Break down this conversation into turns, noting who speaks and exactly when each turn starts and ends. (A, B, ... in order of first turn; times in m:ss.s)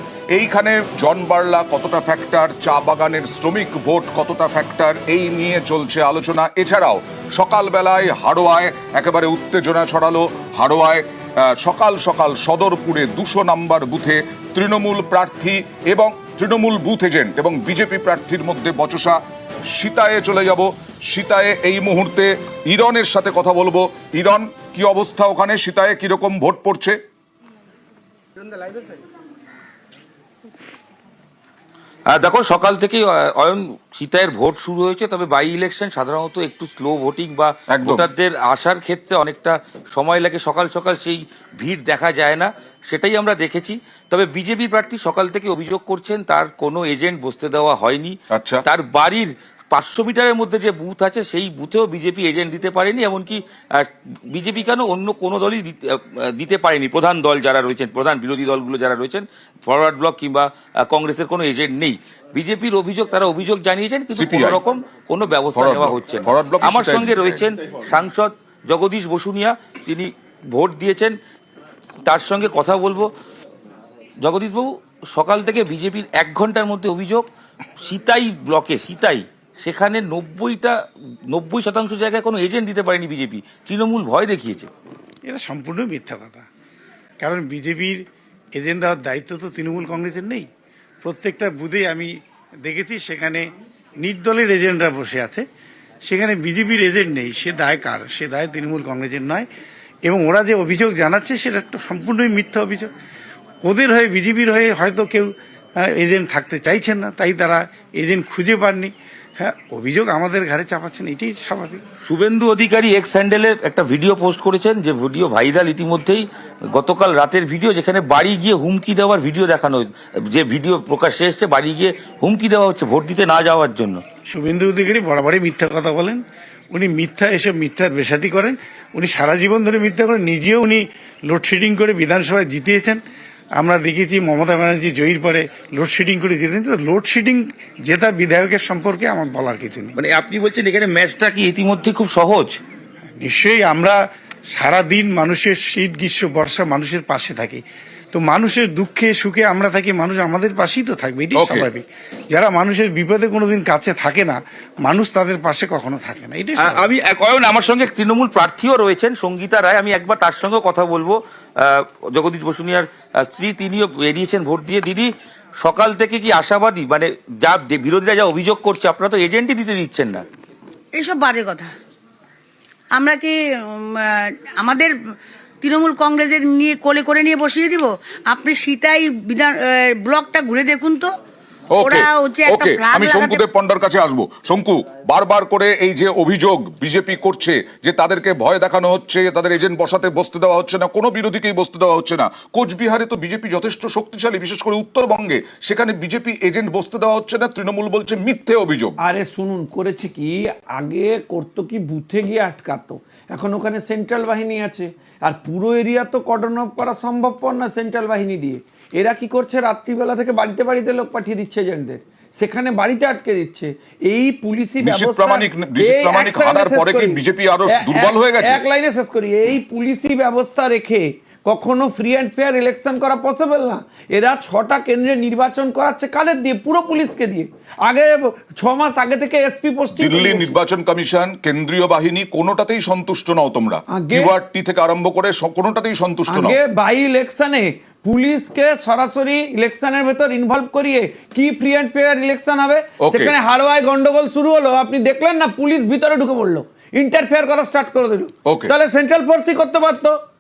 0:00.3-0:19.2 A
0:19.7-0:27.0 A
0:32.1-1:11.2 B
0:37.7-0:38.1 A
0:48.3-0:48.6 A
1:04.1-1:04.6 A
1:05.5-1:07.4 A
1:12.1-1:13.1 B
1:14.2-1:17.3 B
1:17.8-1:20.7 B
1:21.3-1:24.7 B
1:25.3-1:26.4 C
1:27.2-1:28.0 C
1:28.6-1:30.5 C
1:31.0-1:32.1 C
1:32.6-1:33.4 C
1:34.0-1:35.4 C
1:36.0-1:39.5 C
1:40.0-1:42.9 C
1:43.6-1:51.8 C
1:52.0-2:04.0 B
2:04.3-2:13.0 C
2:13.6-2:20.0 C
2:20.0-2:22.6 B
2:23.2-2:24.0 C
2:24.5-2:27.6 C
2:28.1-2:36.9 C
2:31.4-2:31.7 A
2:36.6-2:45.1 B
2:45.6-2:50.2 B
2:50.9-2:51.7 D
2:52.9-2:54.9 D
2:55.6-3:01.1 D
3:01.7-3:18.9 A
3:01.8-3:03.4 D
3:19.0-3:50.5 E
3:34.8-3:38.6 A
3:50.0-3:56.6 A
3:53.9-3:54.3 E
3:56.3-4:10.2 E
4:03.0-4:03.3 A
4:08.5-4:08.7 A